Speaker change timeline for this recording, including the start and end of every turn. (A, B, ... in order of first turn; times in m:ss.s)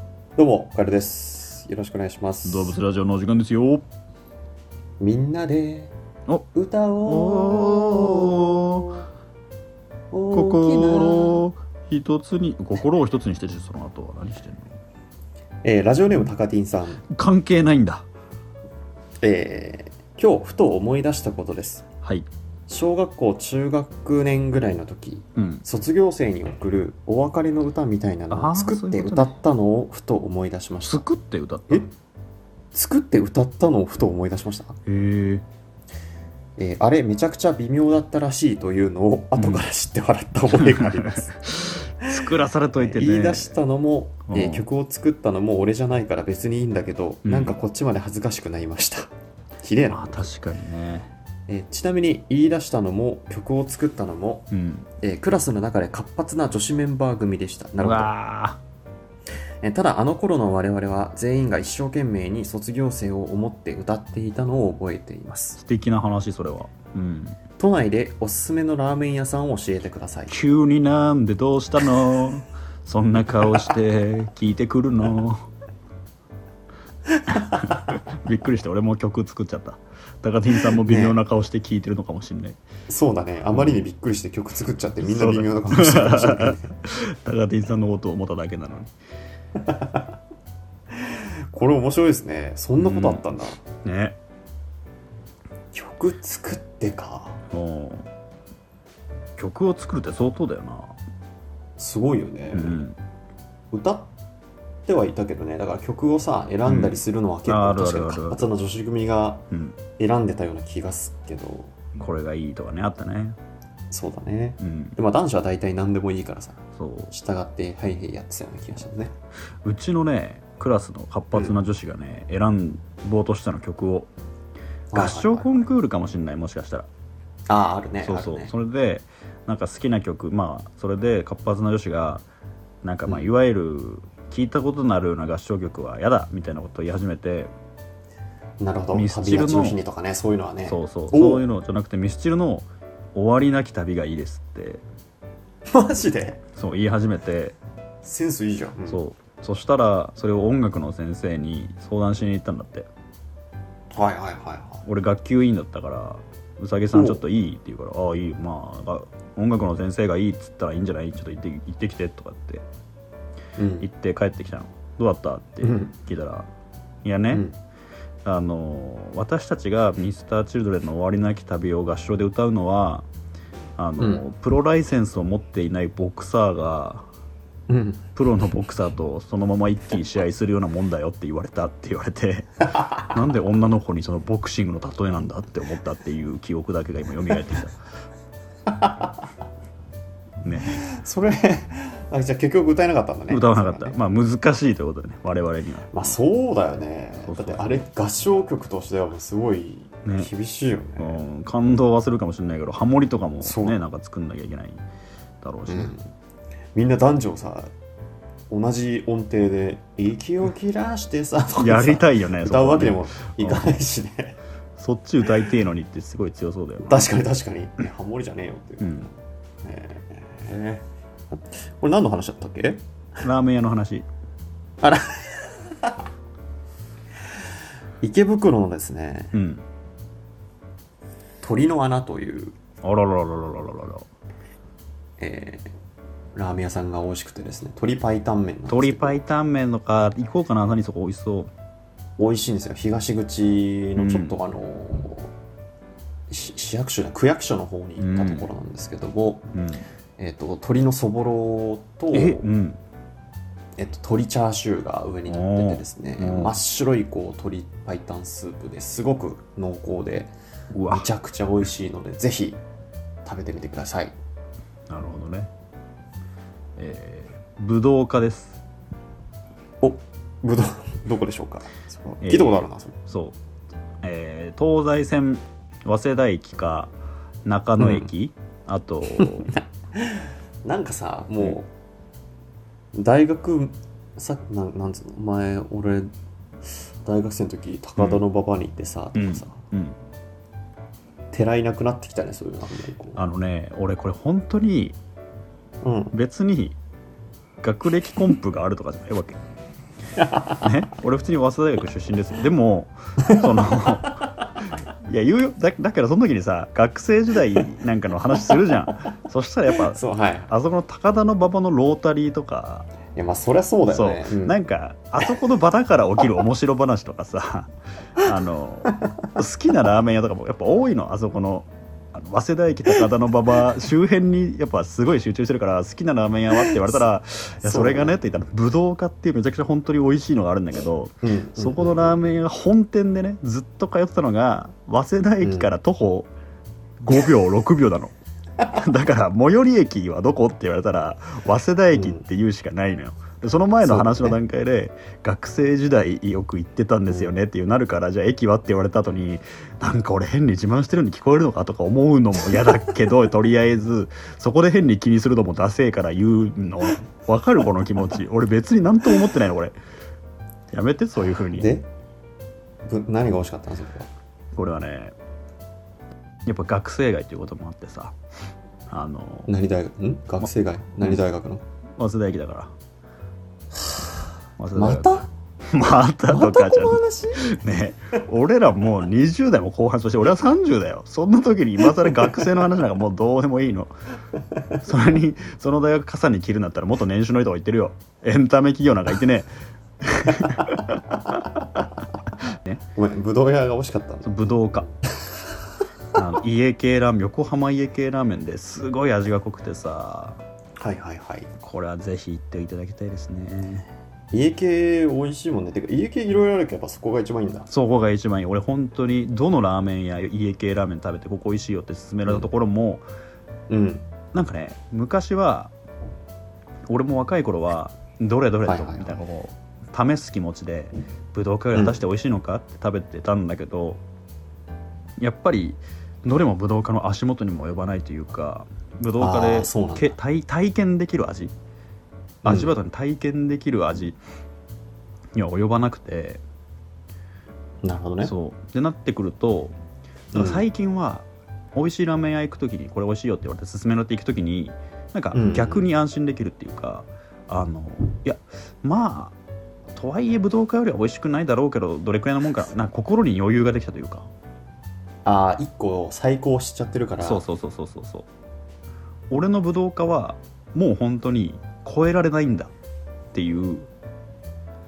0:00.4-0:02.8 A
0:02.4-0:03.8 B
0:05.0-0:05.9 A
0:06.5-0:08.9 A
0:07.1-0:09.0 B
0:10.1-0:11.4 A
0:10.3-0:14.8 B
0:15.6-0:17.0 A
0:17.1-0:18.1 B
0:19.2-0:21.8 A
0:22.0-0:22.3 B
0:22.7-0:31.0 A
0:25.4-0:25.6 B
0:28.3-0:29.4 B
0:30.9-0:31.9 B
0:32.7-0:34.8 A
0:34.9-0:35.4 B
0:36.6-0:41.3 A
0:39.4-0:39.6 B
0:40.6-0:43.5 B
0:42.8-0:50.3 A
0:44.3-0:44.6 B
0:47.2-0:47.6 B
0:49.9-0:51.1 B
0:51.5-0:54.5 A
0:54.5-0:54.9 B
0:55.0-0:58.1 A
0:57.8-0:58.6 B
0:59.6-1:05.6 A
1:05.6-1:07.4 B
1:07.6-1:10.4 A
1:10.3-1:15.5 B
1:17.3-1:22.6 B
1:20.8-1:21.2 A
1:22.9-1:26.8 A
1:25.0-1:28.9 B
1:29.6-1:30.0 A
1:30.9-1:33.6 A
1:32.8-1:33.2 B
1:33.8-1:34.2 B
1:35.7-1:37.4 A
1:37.5-1:38.1 B
1:39.4-1:41.0 B
1:41.8-1:42.8 A
1:42.5-1:43.0 B
1:43.7-1:44.1 A
1:44.9-1:49.5 A
1:46.7-1:48.5 B
1:49.5-1:49.8 B
1:50.0-1:51.8 A
1:52.0-1:53.4 B
1:53.9-1:59.2 A
1:54.6-1:55.0 B
1:56.8-1:57.1 B
1:59.6-2:04.1 B
2:04.9-2:05.6 A
2:04.9-2:06.9 B
2:07.5-2:08.5 A
2:08.0-2:12.2 B
2:12.8-2:17.5 B
2:18.6-2:21.4 A
2:18.9-2:19.8 B
2:20.7-2:24.8 B
2:25.7-2:26.4 A
2:26.6-2:27.6 B
2:28.0-2:29.0 A
2:28.9-2:32.9 B
2:33.9-2:34.8 A
2:34.8-2:42.7 B
2:36.9-2:37.2 A
2:43.6-2:43.9 A
2:43.8-2:46.5 B
2:45.6-2:45.9 A
2:47.0-2:47.5 B
2:47.3-2:47.6 A
2:48.2-2:53.1 B
2:53.8-2:57.1 B
2:54.0-2:54.2 A
2:57.7-2:58.1 A
2:58.2-3:07.8 B
3:08.7-3:09.1 A
3:10.4-3:10.9 B
3:10.6-3:14.0 A
3:13.3-3:16.2 B
3:15.9-3:21.3 A
3:17.2-3:17.9 B
3:20.0-3:20.3 B
3:21.0-3:24.8 B
3:23.4-3:23.8 A
3:25.4-3:25.9 B
3:25.7-3:26.1 A
3:26.8-3:27.7 A
3:28.5-3:34.4 A
3:31.6-3:33.8 B
3:34.8-3:37.1 B
3:36.8-3:39.1 A
3:38.8-3:39.1 B
3:39.6-3:42.8 A
3:43.2-3:44.1 B
3:44.8-3:46.0 A
3:48.0-3:49.3 A
3:49.3-3:49.7 B
3:51.4-3:52.6 A
3:52.8-3:54.1 B
3:55.2-3:55.7 A
3:56.4-3:59.2 A
3:58.7-4:01.5 B
4:02.2-4:05.3 A
4:04.0-4:04.4 B
4:06.3-4:09.5 A
4:08.0-4:08.5 B
4:09.6-4:09.9 B
4:10.2-4:12.4 A
4:12.1-4:12.8 B
4:13.8-4:20.3 A
4:15.3-4:16.6 B
4:20.7-4:21.1 B
4:20.9-4:22.6 A
4:23.2-4:24.1 A
4:24.9-4:25.5 B
4:26.8-4:28.6 B
4:29.8-4:33.0 A
4:32.2-4:33.4 B
4:34.0-4:36.9 B
4:37.5-4:39.6 B
4:37.8-4:38.1 A
4:39.2-4:41.7 A
4:42.9-4:46.1 A
4:46.7-4:49.6 A
4:48.0-4:48.2 B
4:49.2-4:50.0 B
4:51.3-4:53.2 A
4:53.2-4:55.0 B
4:55.8-4:56.1 A
4:56.1-4:56.8 B
4:57.6-4:59.4 B
5:00.2-5:00.6 A
5:00.6-5:12.9 B
5:03.2-5:03.9 A
5:09.9-5:10.5 A
5:13.2-5:14.6 A
5:13.9-5:36.3 B
5:27.6-5:28.2 A
5:31.2-5:32.2 A
5:35.4-5:35.7 A
5:37.0-5:38.1 B
5:38.7-5:59.8 B
5:41.9-5:42.2 A
5:43.8-5:44.4 A
6:00.7-6:01.8 B
6:01.5-6:01.9 A
6:02.9-6:04.1 A
6:04.6-6:05.2 B
6:06.5-6:08.2 B
6:08.9-6:09.5 B
6:09.5-6:11.6 A
6:12.0-6:12.7 B
6:14.6-6:23.9 B
6:14.8-6:15.3 A
6:16.3-6:17.6 A
6:24.8-6:29.5 B
6:30.0-6:31.0 B
6:32.5-6:32.8 B
6:33.0-6:34.9 A
6:34.2-6:34.9 B
6:36.1-6:40.4 B
6:40.8-6:41.5 A
6:41.6-6:43.9 B
6:44.3-6:47.7 A
6:47.7-6:53.0 B
6:53.7-6:54.1 A
6:54.3-6:55.7 B
6:56.9-7:04.0 B
6:58.7-6:59.2 A
7:01.7-7:02.0 A
7:05.2-7:11.5 B
7:09.2-7:10.2 A
7:12.4-7:14.2 B
7:12.4-7:12.7 A
7:15.4-7:16.4 B
7:17.8-7:18.3 A
7:18.2-7:19.8 B
7:20.3-7:20.7 A
7:20.3-7:29.4 B
7:25.3-7:25.9 A
7:29.9-7:34.3 B
7:35.2-7:37.4 A
7:37.2-7:38.3 B
7:39.3-7:42.7 B
7:43.3-7:43.9 B